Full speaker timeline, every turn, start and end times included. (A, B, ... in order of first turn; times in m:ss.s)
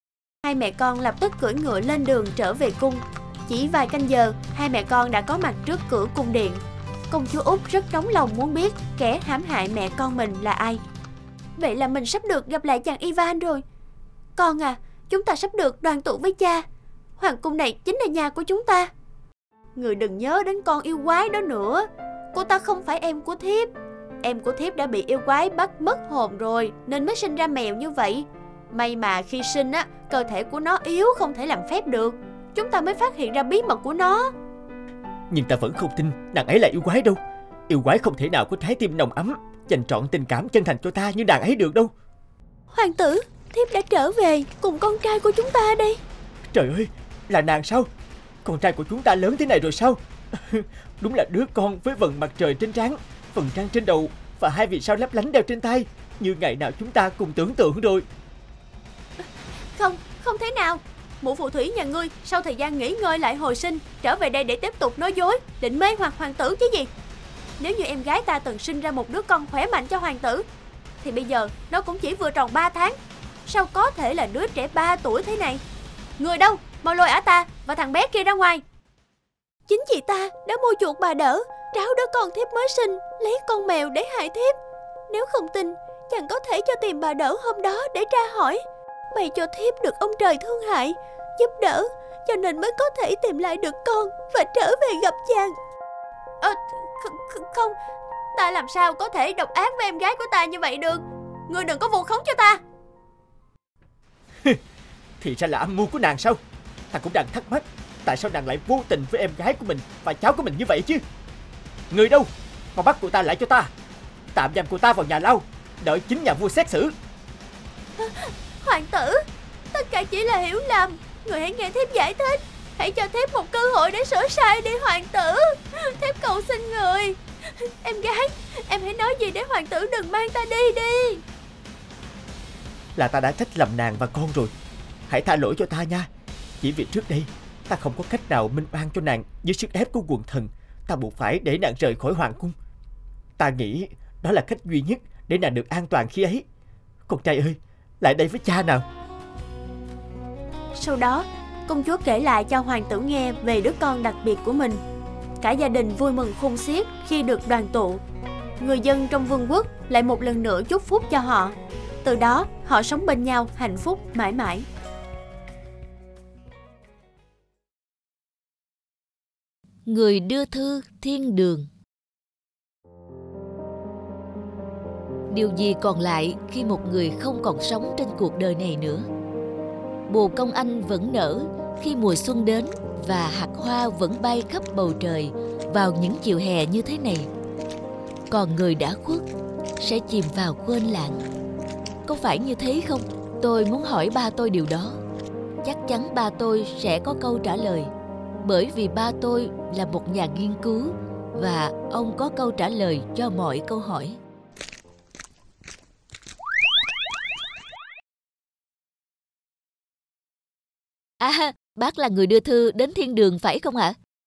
0:00.4-0:10.8 A
0:11.6-0:13.6 A
0:14.4-0:16.6 A
0:17.2-0:18.9 A
0:19.8-0:23.7 A
0:24.2-0:34.3 A
0:35.3-0:41.9 B
0:42.7-0:46.0 A
0:46.5-0:47.9 B
0:48.4-0:58.0 B
0:59.7-1:06.9 A
1:07.6-1:10.4 A
1:11.0-1:15.6 A
1:16.2-1:18.6 A
1:19.7-1:24.5 A
1:25.1-1:35.6 A
1:36.4-1:37.8 A
1:38.3-1:42.6 A
1:45.2-1:46.4 B
1:46.9-1:51.0 B
1:51.9-1:53.7 B
1:54.3-1:56.9 B
1:58.0-2:11.2 A
2:13.0-2:14.5 B
2:15.1-2:16.1 B
2:16.6-2:22.5 B
2:23.4-2:26.4 B
2:27.1-2:28.8 B
2:30.7-2:34.8 A
2:35.4-2:38.0 A
2:38.6-2:44.6 A
2:49.8-2:51.7 C
2:55.3-2:59.0 C
3:00.1-3:07.3 C
3:08.3-3:09.2 C
3:09.8-3:11.2 C
3:12.0-3:15.0 C
3:15.6-3:17.9 C
3:18.4-3:24.2 C
3:31.2-3:34.0 C